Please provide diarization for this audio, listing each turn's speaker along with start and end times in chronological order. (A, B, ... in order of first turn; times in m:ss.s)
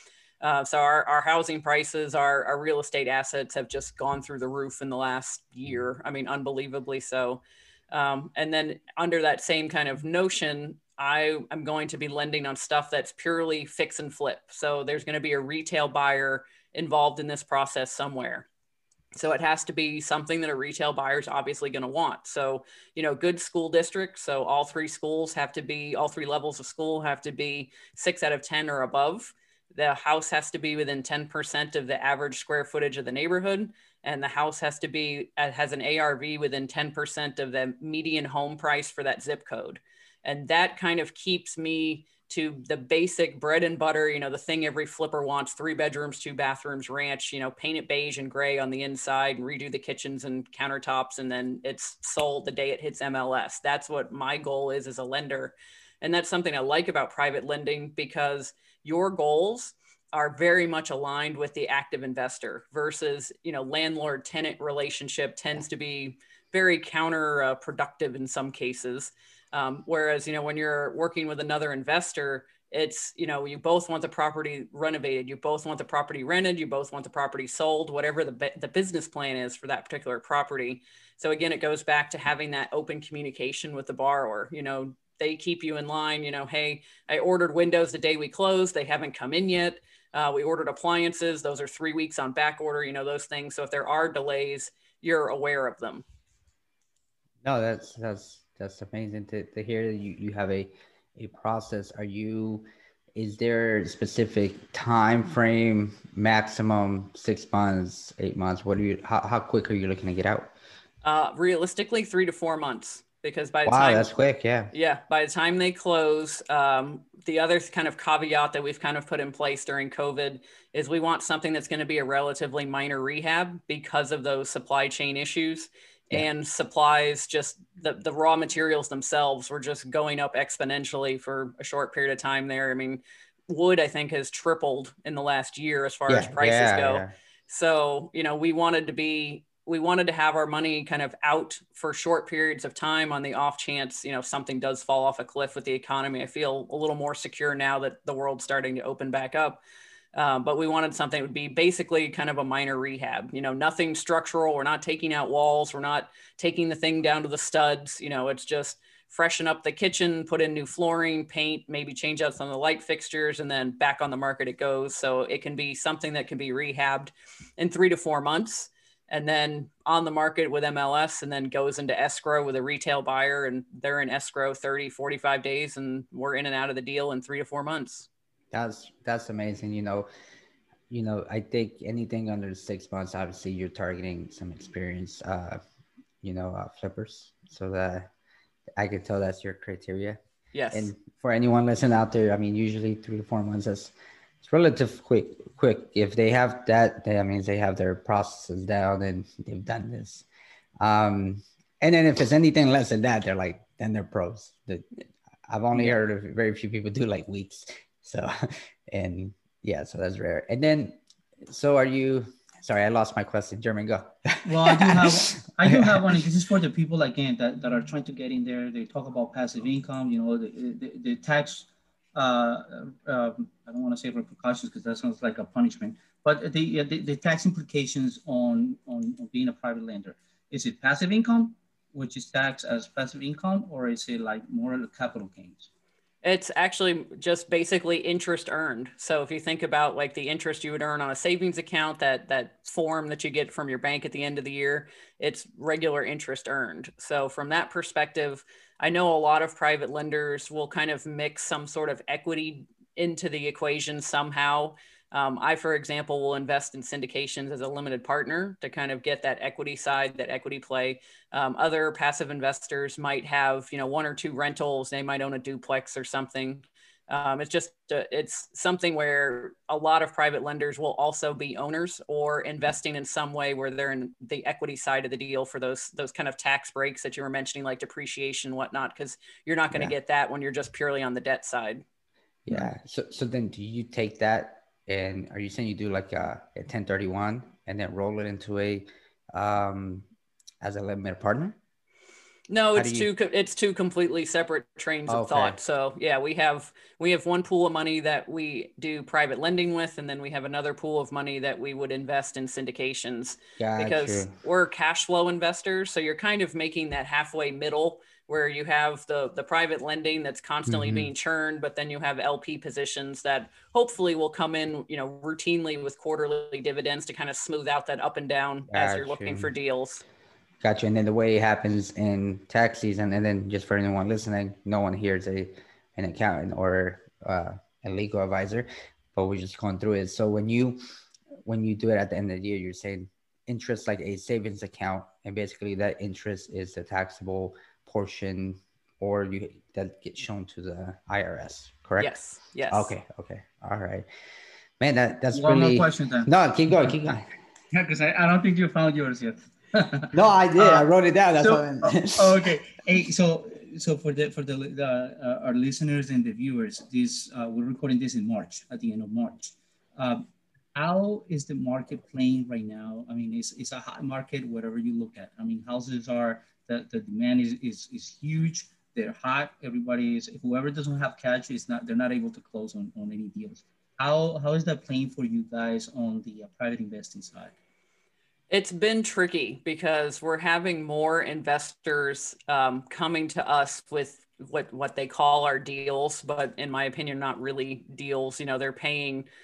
0:00.4-0:07.4 A
0:07.9-0:18.5 A
0:19.1-1:36.0 A
1:37.4-1:50.5 B
1:51.0-1:54.1 A
1:53.6-1:54.7 B
1:54.7-2:29.6 A
2:16.1-2:17.1 B
2:30.1-2:58.1 A
2:58.5-3:00.1 B
3:00.9-3:05.6 B
3:06.2-3:08.1 B
3:08.8-3:10.2 B
3:10.5-3:10.9 A
3:10.7-3:20.2 B
3:20.8-3:24.9 B
3:25.5-3:36.2 B
3:34.4-3:55.7 C
3:56.2-4:41.8 A
4:42.4-4:50.1 B
4:50.6-4:51.6 B
4:52.5-5:20.0 A
4:52.8-4:53.1 B
4:55.1-4:55.6 B
5:03.6-5:04.3 B
5:10.7-5:11.1 B
5:18.7-5:19.5 B
5:20.6-5:30.8 B
5:31.4-5:42.2 B
5:42.0-5:42.9 A
5:42.7-5:44.1 B
5:44.8-5:47.3 B
5:45.3-5:47.1 C
5:47.7-6:17.5 C
5:50.1-5:52.5 B
6:18.5-6:29.3 A